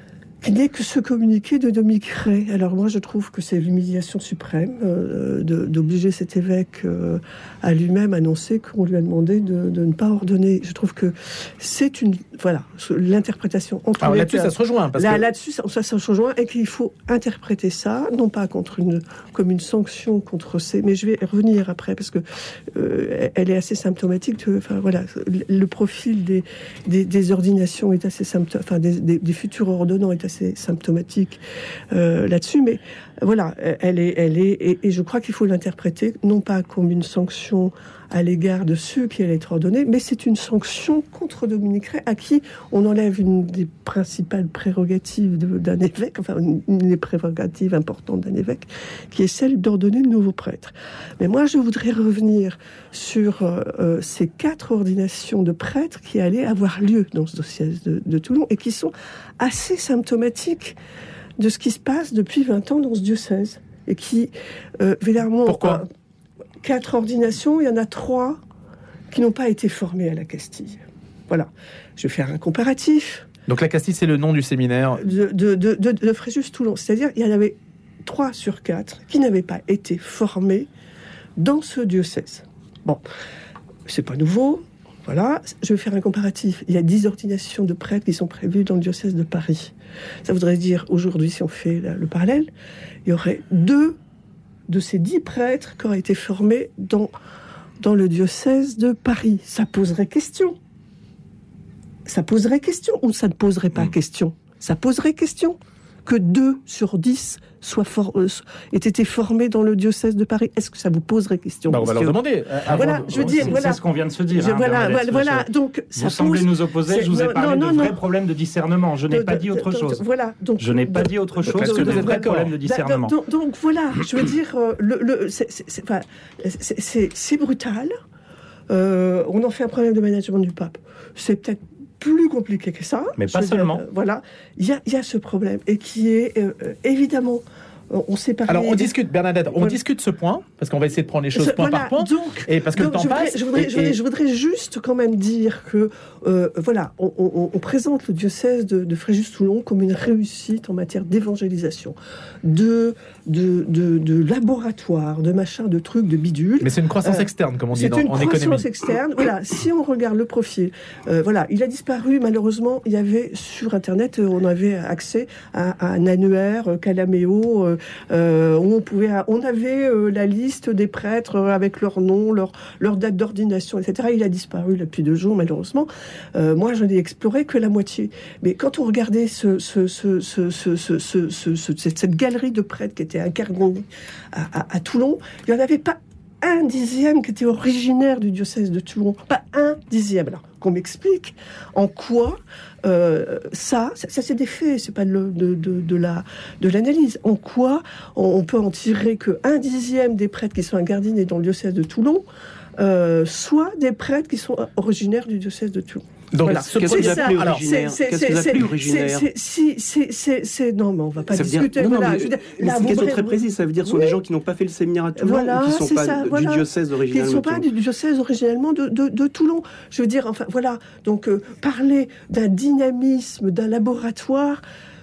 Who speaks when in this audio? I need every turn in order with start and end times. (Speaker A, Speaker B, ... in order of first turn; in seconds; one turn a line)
Speaker A: 0.4-22.2
Speaker B: 14.0-15.2
Speaker A: 22.7-31.4
Speaker A: 31.9-60.8
Speaker A: 61.4-65.9
Speaker B: 65.5-65.8
Speaker A: 66.6-68.4
Speaker A: 69.1-73.3
Speaker B: 73.5-75.1
Speaker A: 75.0-80.7
Speaker A: 81.4-83.0
Speaker A: 83.9-89.7
Speaker A: 90.3-92.5
Speaker A: 93.1-94.0
Speaker A: 94.7-97.1
Speaker A: 97.8-100.6
Speaker A: 102.1-113.8
Speaker B: 111.7-113.8
Speaker C: 112.7-120.0
Speaker A: 114.3-118.0
Speaker A: 119.1-127.9
Speaker C: 120.6-123.1
Speaker B: 121.5-122.6
Speaker A: 128.7-138.9
Speaker C: 133.2-133.8
Speaker B: 138.5-144.0
Speaker A: 139.5-139.8
Speaker A: 141.3-202.3
Speaker B: 156.6-158.7
Speaker A: 202.8-214.2
Speaker B: 206.3-207.6
Speaker D: 206.5-209.3
Speaker D: 211.3-217.7
Speaker A: 215.2-224.6